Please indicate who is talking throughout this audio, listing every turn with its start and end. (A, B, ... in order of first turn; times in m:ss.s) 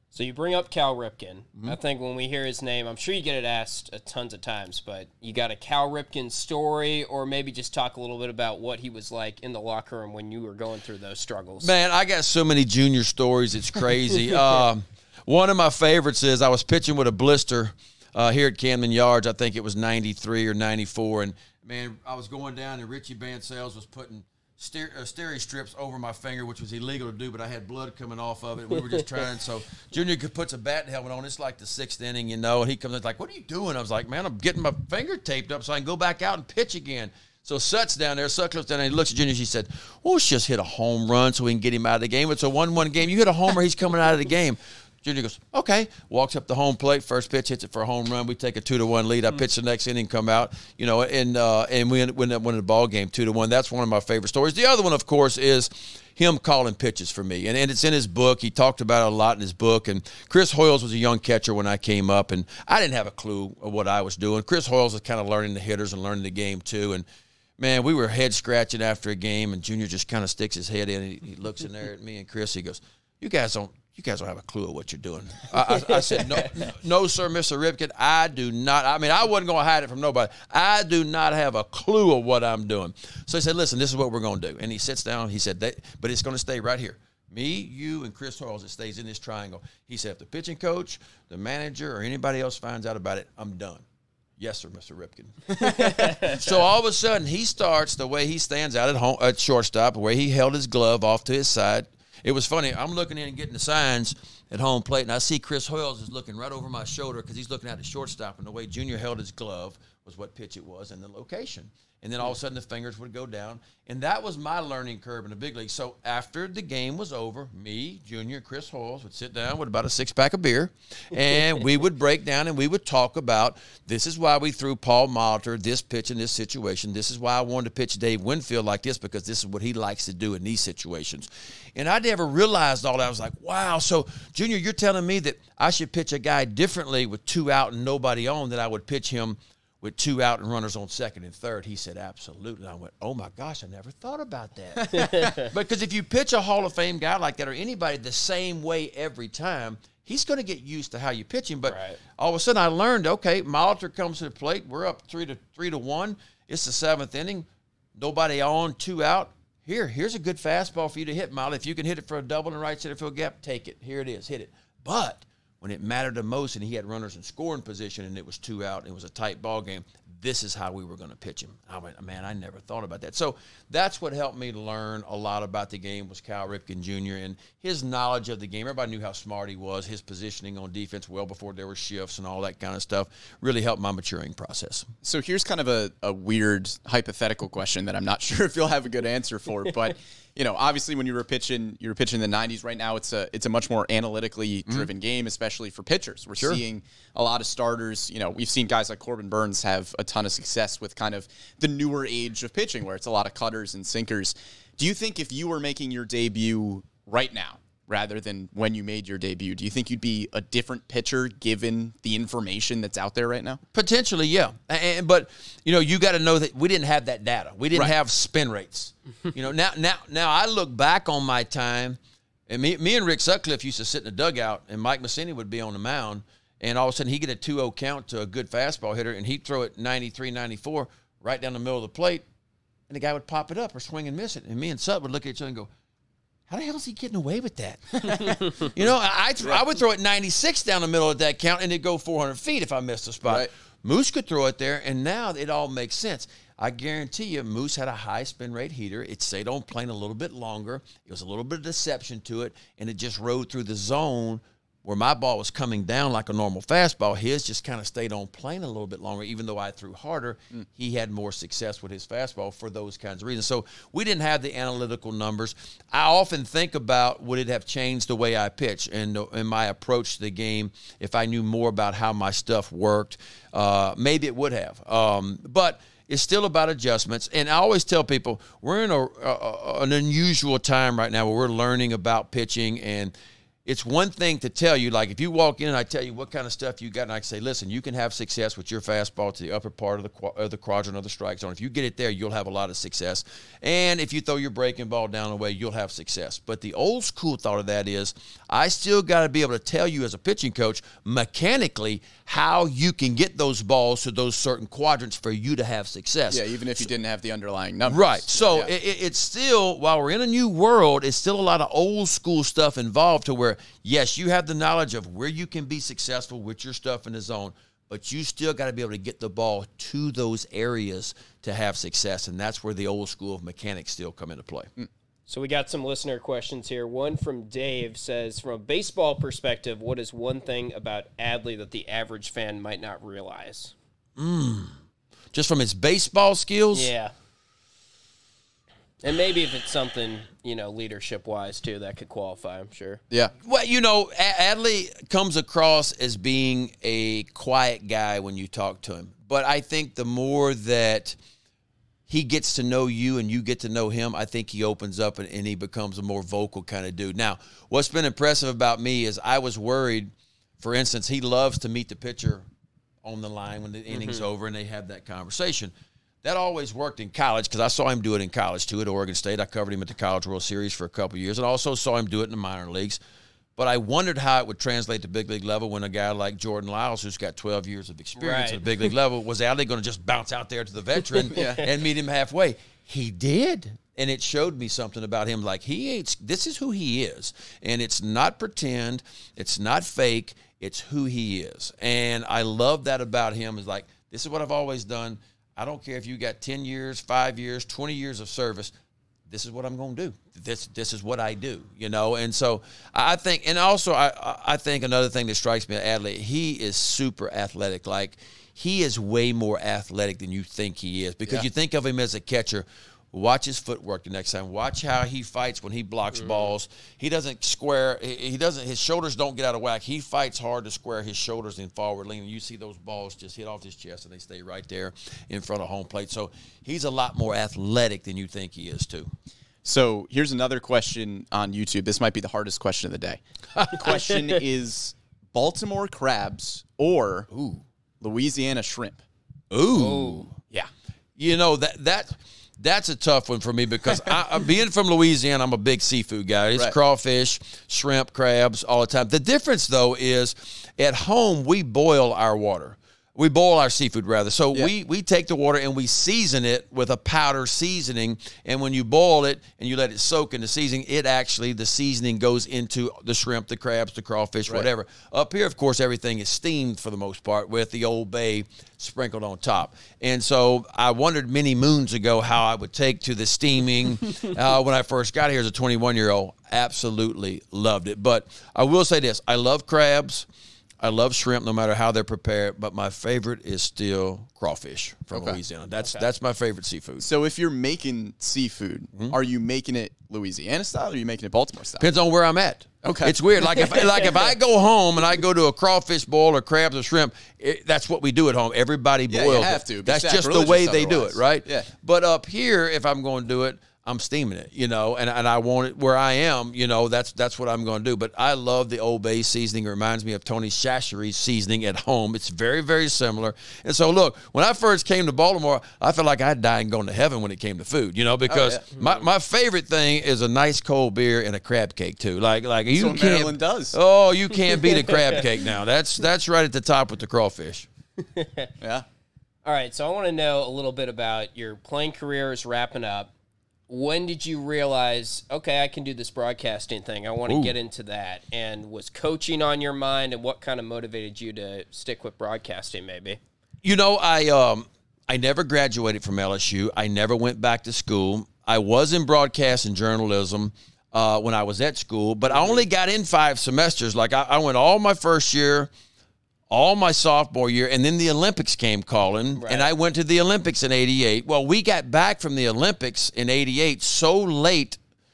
0:00.1-0:11.7 A
0:11.6-1:07.0 B
1:07.6-1:33.8 B
1:34.4-3:04.9 B
1:35.6-1:36.3 A
2:24.9-2:25.5 A
2:31.7-2:32.0 A
3:05.0-3:33.6 C
3:33.7-3:52.2 B
3:52.9-3:55.7 B
3:56.5-4:43.1 B
3:58.0-3:58.4 C
4:43.6-5:06.9 B
5:06.3-5:08.7 C
5:07.8-5:24.7 B
5:25.3-5:33.7 A
5:34.2-5:34.7 B
5:35.3-5:36.9 B
5:36.7-5:37.1 A
5:39.0-5:43.0 A
5:43.4-5:51.2 B
5:52.1-6:02.4 B
6:03.0-6:05.7 B
6:03.9-6:04.2 A
6:06.2-6:13.0 B
6:13.6-6:38.7 B
6:18.2-6:18.6 A
6:21.3-6:21.6 C
6:21.3-6:21.6 A
6:39.3-7:09.1 B
7:09.6-7:17.3 C
7:13.6-7:13.9 B
7:17.3-7:17.6 B
7:18.0-7:19.0 C
7:19.5-7:20.3 B
7:19.7-7:20.3 A
7:21.2-8:00.3 B
8:00.8-8:07.1 B
8:05.1-8:05.4 C
8:05.8-8:06.0 A
8:07.0-8:11.9 C
8:11.8-8:47.7 B
8:12.8-8:13.2 C
8:19.1-8:21.7 C
8:38.3-8:38.7 C
8:42.7-8:43.8 C
8:48.1-8:48.5 A
8:48.6-8:48.8 C
8:49.4-8:53.1 A
8:53.7-9:03.2 A
8:57.2-8:57.5 B
9:03.6-9:15.7 B
9:16.5-9:24.8 B
9:19.3-9:19.7 A